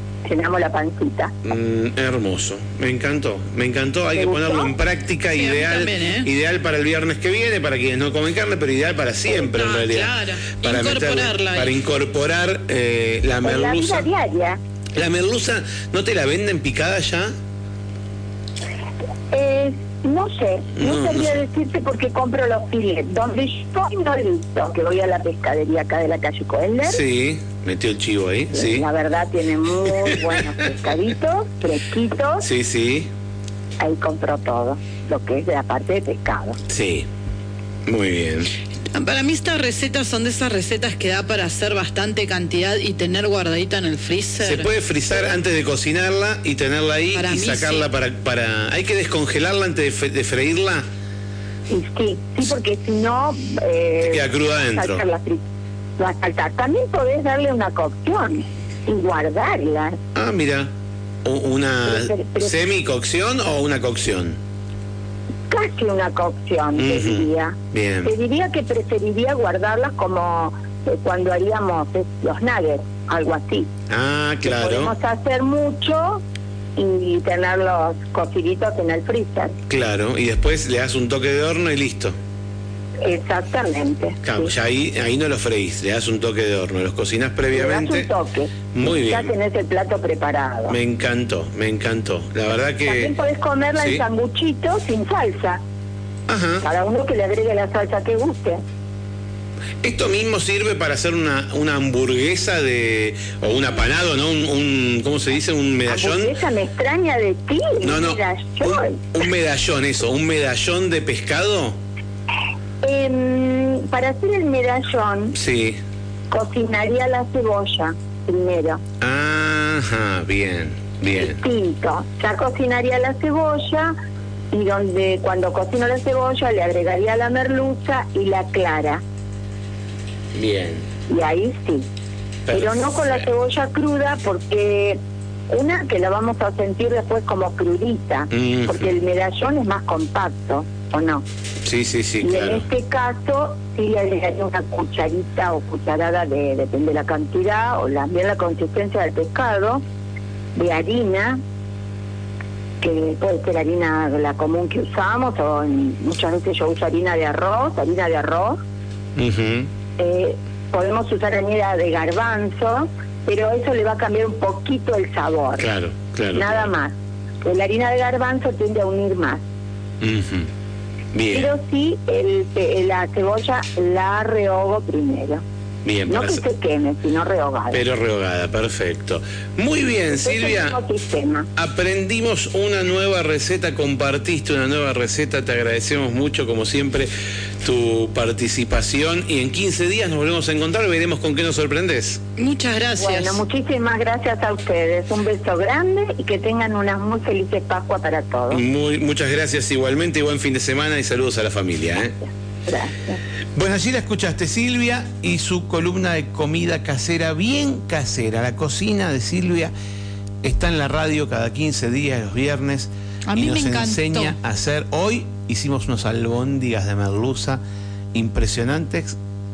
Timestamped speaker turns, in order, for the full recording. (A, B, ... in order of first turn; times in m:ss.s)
0:00.2-0:01.3 A
0:01.4-0:14.1 B
0:04.2-0:04.7 A
0:05.4-0:06.3 C
0:09.3-0:11.7 C
0:13.4-0:14.6 A
0:15.0-0:17.3 B
0:19.3-0:27.0 A
0:20.8-0:21.4 B
0:26.8-0:28.9 B
0:28.5-0:32.5 A
0:30.0-0:30.6 B
0:32.4-0:33.1 B
0:33.8-0:36.6 A
0:36.7-0:37.1 B
0:37.9-0:38.5 B
0:38.9-0:44.7 C
0:44.4-0:50.8 B
0:47.2-0:47.9 C
0:51.7-0:55.4 A
0:54.0-0:55.0 B
0:56.0-1:00.0 A
1:00.2-1:00.7 B
1:01.2-1:04.4 B
1:01.9-1:02.6 A
1:05.5-1:13.7 A
1:06.8-1:08.1 B
1:13.9-1:14.9 B
1:14.4-1:16.2 A
1:16.8-1:19.6 A
1:19.7-1:22.2 B
1:23.0-1:24.5 A
1:24.2-1:28.1 B
1:27.5-1:30.8 A
1:28.7-1:29.3 B
1:30.7-1:33.2 B
1:32.9-1:35.6 A
1:33.8-1:34.0 B
1:36.3-1:36.6 B
1:36.6-1:38.6 A
1:39.8-1:46.3 B
1:45.9-1:49.1 A
1:47.8-1:51.8 B
1:52.8-1:55.4 A
1:55.4-1:55.8 B
1:56.3-1:58.8 A
1:59.0-2:01.4 B
2:01.2-2:03.9 A
2:04.5-2:09.0 A
2:10.3-2:10.9 B
2:11.1-2:11.9 A
2:12.5-2:13.1 B
2:12.5-2:21.2 A
2:18.3-2:18.9 B
2:21.6-2:22.7 B
2:22.2-2:29.8 A
2:30.6-2:31.4 A
2:32.8-2:38.6 A
2:39.2-2:39.7 B
2:40.0-2:45.7 A
2:45.6-2:46.7 B
2:46.3-2:49.4 A
2:50.0-2:50.5 B
2:51.1-2:51.5 B
2:51.3-2:55.4 A
2:55.8-2:56.4 B
2:56.1-2:57.8 A
2:57.7-3:00.8 B
3:00.2-3:01.5 A
3:01.6-3:12.2 B
3:12.4-3:13.4 C
3:13.0-3:18.6 A
3:18.5-3:22.2 B
3:22.7-3:23.2 A
3:23.6-3:29.7 B
3:30.4-3:37.6 B
3:33.3-3:34.4 C
3:38.1-3:39.2 B